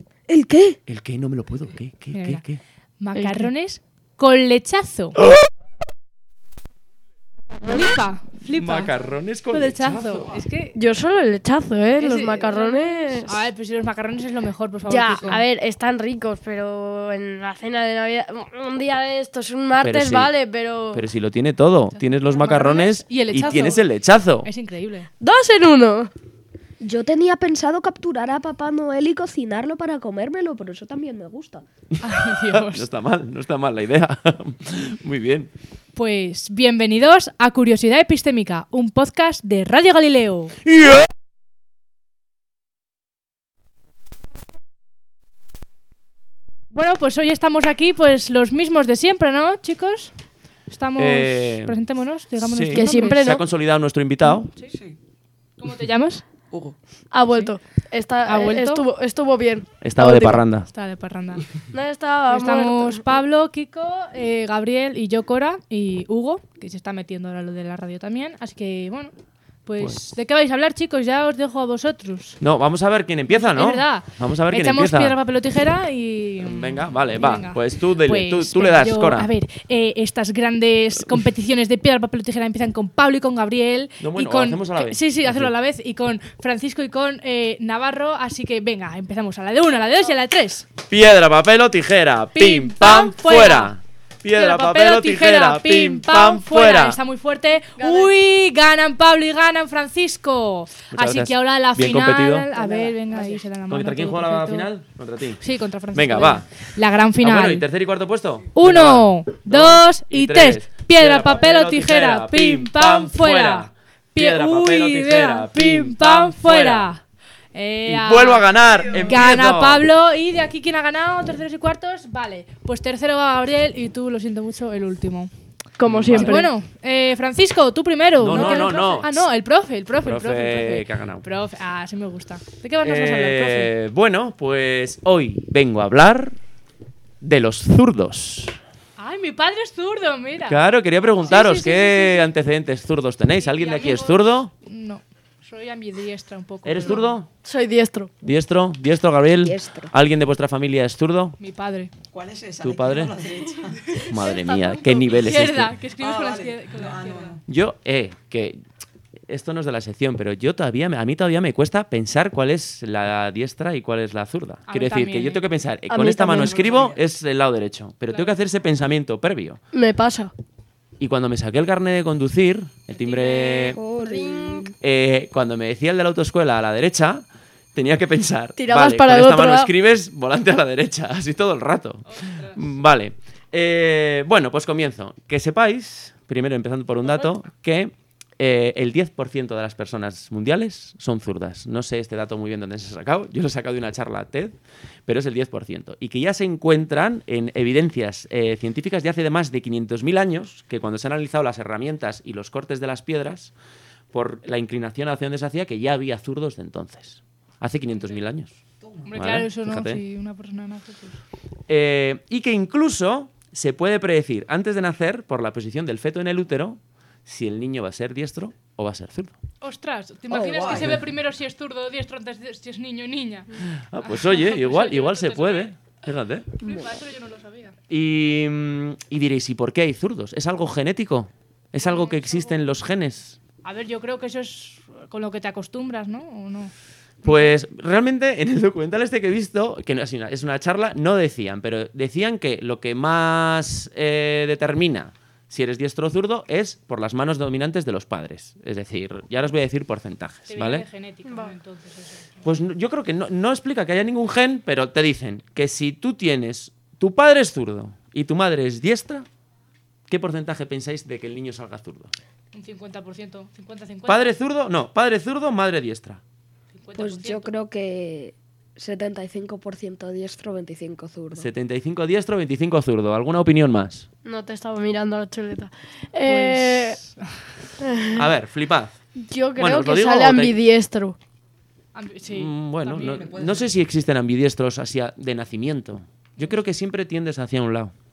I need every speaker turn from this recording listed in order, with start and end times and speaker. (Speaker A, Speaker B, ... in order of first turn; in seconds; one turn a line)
Speaker A: 0.3-0.8
Speaker B: 0.9-2.6
Speaker C: 2.1-2.4
Speaker C: 3.0-5.2
Speaker D: 3.1-3.5
Speaker B: 5.2-5.5
Speaker C: 7.6-8.9
Speaker D: 7.6-7.9
Speaker B: 8.5-10.4
Speaker C: 9.5-10.8
Speaker D: 10.7-13.4
Speaker C: 12.0-15.4
Speaker D: 14.8-21.0
Speaker B: 19.8-20.3
Speaker B: 20.9-24.5
Speaker C: 22.0-23.9
Speaker C: 24.4-25.1
Speaker D: 25.2-26.1
Speaker A: 26.8-31.6
Speaker B: 32.0-35.5
Speaker C: 32.0-32.9
Speaker C: 36.0-40.5
Speaker B: 40.6-41.1
Speaker C: 46.7-50.1
Speaker C: 50.7-53.2
Speaker B: 51.0-51.8
Speaker B: 52.4-54.5
Speaker D: 52.7-53.4
Speaker E: 54.6-55.0
Speaker C: 55.6-56.2
Speaker E: 56.5-56.8
Speaker D: 57.1-60.4
Speaker C: 57.3-57.5
Speaker C: 58.2-58.8
Speaker B: 59.8-60.7
Speaker C: 60.7-61.5
Speaker D: 61.7-63.0
Speaker C: 62.3-69.1
Speaker C: 69.6-72.4
Speaker B: 72.4-75.2
Speaker C: 73.3-90.7
Speaker B: 76.4-79.3
Speaker B: 84.0-85.5
Speaker B: 90.9-97.0
Speaker C: 92.3-93.7
Speaker C: 94.3-104.7
Speaker E: 97.8-98.1
Speaker B: 100.9-102.5
Speaker A: 102.5-103.3
Speaker B: 103.7-106.5
Speaker C: 105.4-107.7
Speaker B: 107.2-116.9
Speaker C: 108.5-125.3
Speaker B: 117.8-119.8
Speaker D: 125.8-126.5
Speaker B: 125.8-126.5
Speaker C: 126.1-133.7
Speaker B: 128.2-129.1
Speaker D: 128.3-129.0
Speaker B: 130.0-131.2
Speaker B: 132.8-136.3
Speaker B: 137.2-138.6
Speaker C: 139.0-140.6
Speaker B: 140.5-144.5
Speaker C: 141.2-142.3
Speaker C: 143.3-147.1
Speaker B: 146.6-147.3
Speaker D: 147.4-148.1
Speaker B: 148.2-151.4
Speaker A: 149.4-149.9
Speaker C: 151.4-151.9
Speaker E: 152.1-154.0
Speaker B: 152.6-153.2
Speaker D: 153.9-155.0
Speaker B: 154.0-155.7
Speaker C: 155.0-157.4
Speaker E: 156.0-157.4
Speaker B: 157.5-158.6
Speaker B: 159.3-169.6
Speaker C: 164.7-165.4
Speaker D: 165.9-166.7
Speaker E: 166.4-167.0
Speaker D: 169.7-170.3
Speaker B: 171.0-173.8
Speaker C: 172.9-173.8
Speaker A: 173.7-174.7
Speaker D: 174.0-174.7
Speaker B: 174.8-203.5
Speaker D: 178.6-179.7
Speaker C: 182.1-182.8
Speaker C: 187.1-187.3
Speaker B: 204.1-208.5
Speaker E: 208.8-209.2
Speaker C: 209.1-211.2
Speaker B: 209.1-210.0
Speaker B: 211.7-219.3
Speaker C: 219.6-225.7
Speaker A: 220.3-220.8
Speaker E: 220.4-221.0
Speaker B: 220.7-221.0
Speaker B: 223.6-226.5
Speaker A: 226.6-226.9
Speaker C: 226.6-227.8
Speaker B: 227.9-233.4
Speaker C: 231.8-232.6
Speaker C: 233.6-236.7
Speaker B: 237.2-250.8
Speaker C: 237.2-237.5
Speaker C: 250.5-252.5
Speaker D: 251.2-251.5
Speaker B: 252.4-259.2
Speaker B: 260.1-262.1
Speaker C: 262.5-264.3
Speaker B: 264.1-266.2
Speaker C: 266.7-267.5
Speaker A: 266.9-271.5
Speaker B: 271.4-274.1
Speaker D: 274.2-277.0
Speaker C: 276.2-277.4
Speaker D: 277.8-278.3
Speaker B: 278.1-279.0
Speaker D: 279.2-281.2
Speaker B: 279.6-280.6
Speaker C: 281.9-283.3
Speaker B: 282.3-287.9
Speaker E: 283.0-283.7